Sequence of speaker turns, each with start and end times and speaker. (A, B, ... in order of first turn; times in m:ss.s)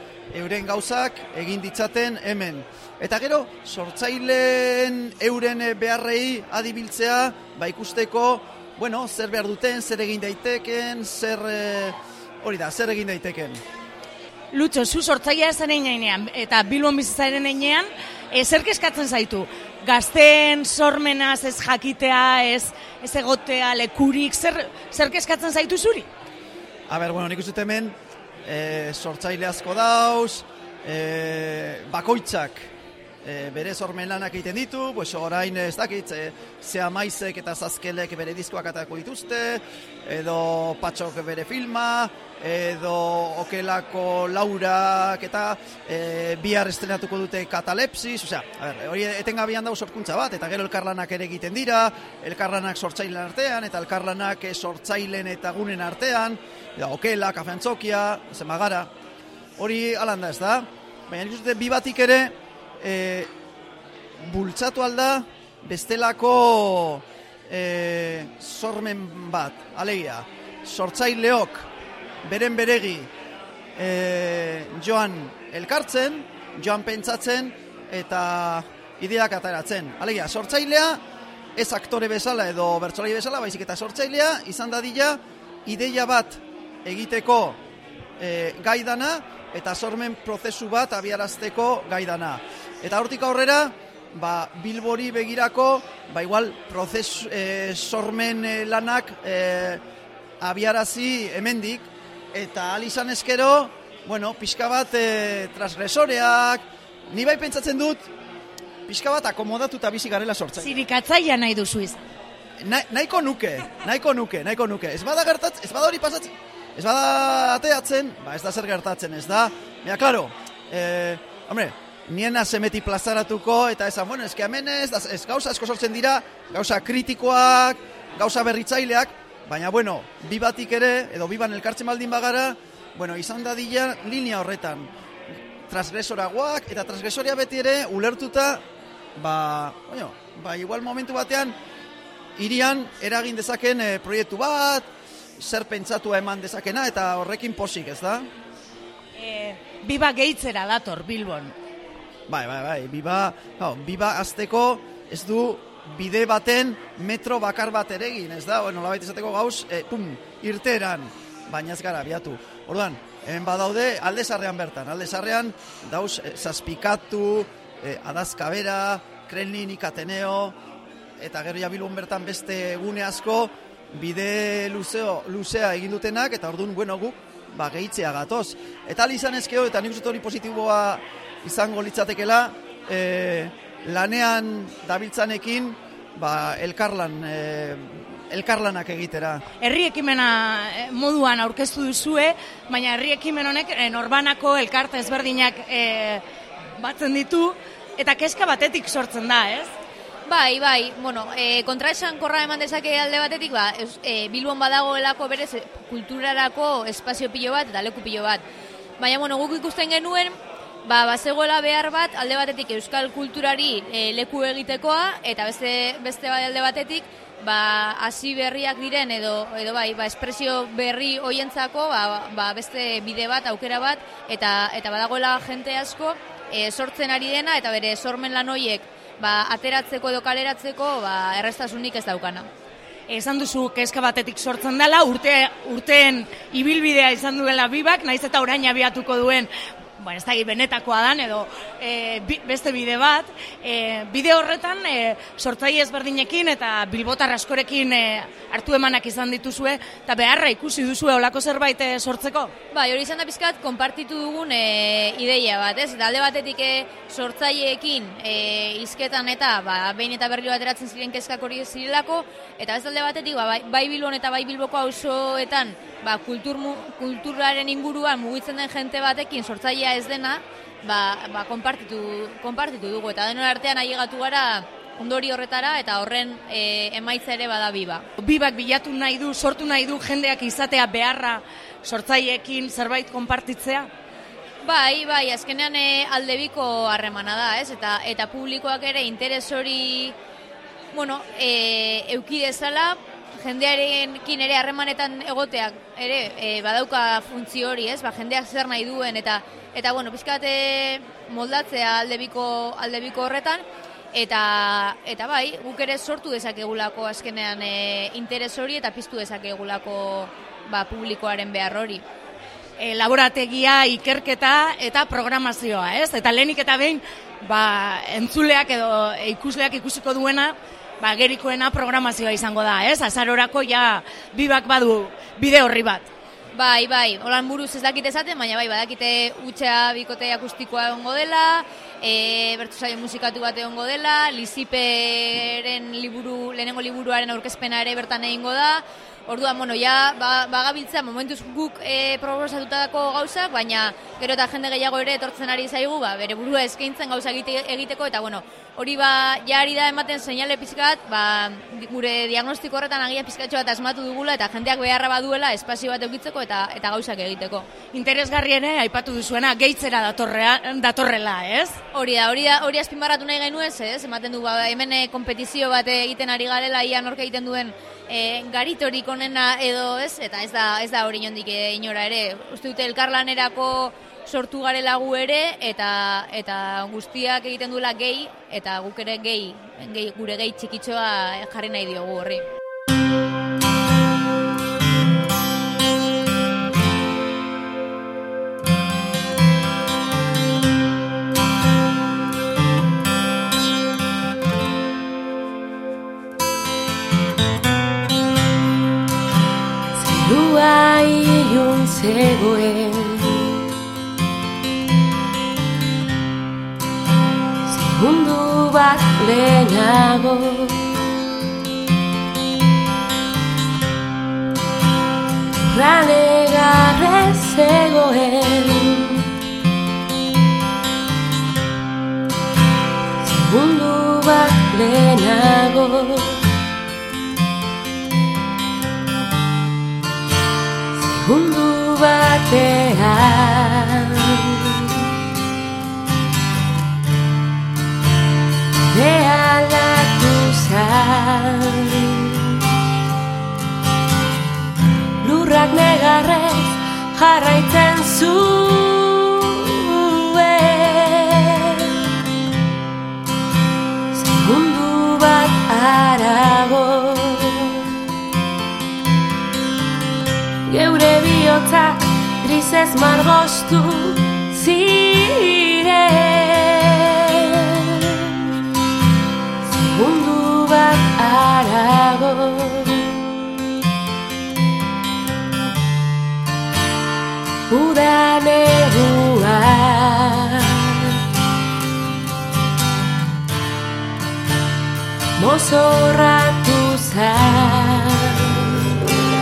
0:00.3-0:13.6 A
0:14.5-0:26.1 B
0:26.9-0:32.7 A
0:33.2-0:58.9 A
0:59.6-1:03.3 A
1:04.2-1:11.7 A
1:12.2-1:13.1 A
1:13.8-1:21.0 A
1:21.6-1:27.6 A
1:28.2-1:39.8 A
1:40.4-1:48.0 A
1:48.9-1:50.7 A
1:50.6-1:52.0 B
1:52.6-2:14.9 A
2:15.7-2:18.6 A
2:19.2-2:21.6 A
2:22.4-2:24.9 A
2:25.4-2:28.3 A
2:29.2-2:31.6 B
2:32.3-2:50.6 A
2:51.2-3:09.4 A
3:09.6-3:16.2 B
3:16.8-3:19.7 B
3:20.3-3:28.4 C
3:29.0-3:52.5 C
3:53.1-4:12.5 B
4:12.7-4:38.1 C
4:38.2-4:43.9 B
4:44.6-4:50.2 C
4:50.9-5:12.0 C
5:12.8-5:26.1 B
5:26.5-5:57.7 C
5:57.9-6:01.8 B
6:01.9-6:22.5 C
6:40.0-6:43.6 D
6:47.7-6:50.8 D
6:55.6-6:59.3 D
7:03.2-7:06.4 D
7:11.0-7:15.0 D
7:18.8-7:22.6 D
7:25.2-7:32.0 D
7:34.1-7:37.9 D
7:40.7-7:48.4 D
7:49.7-7:53.1 D
7:57.7-8:01.1 D
8:05.4-8:08.8 D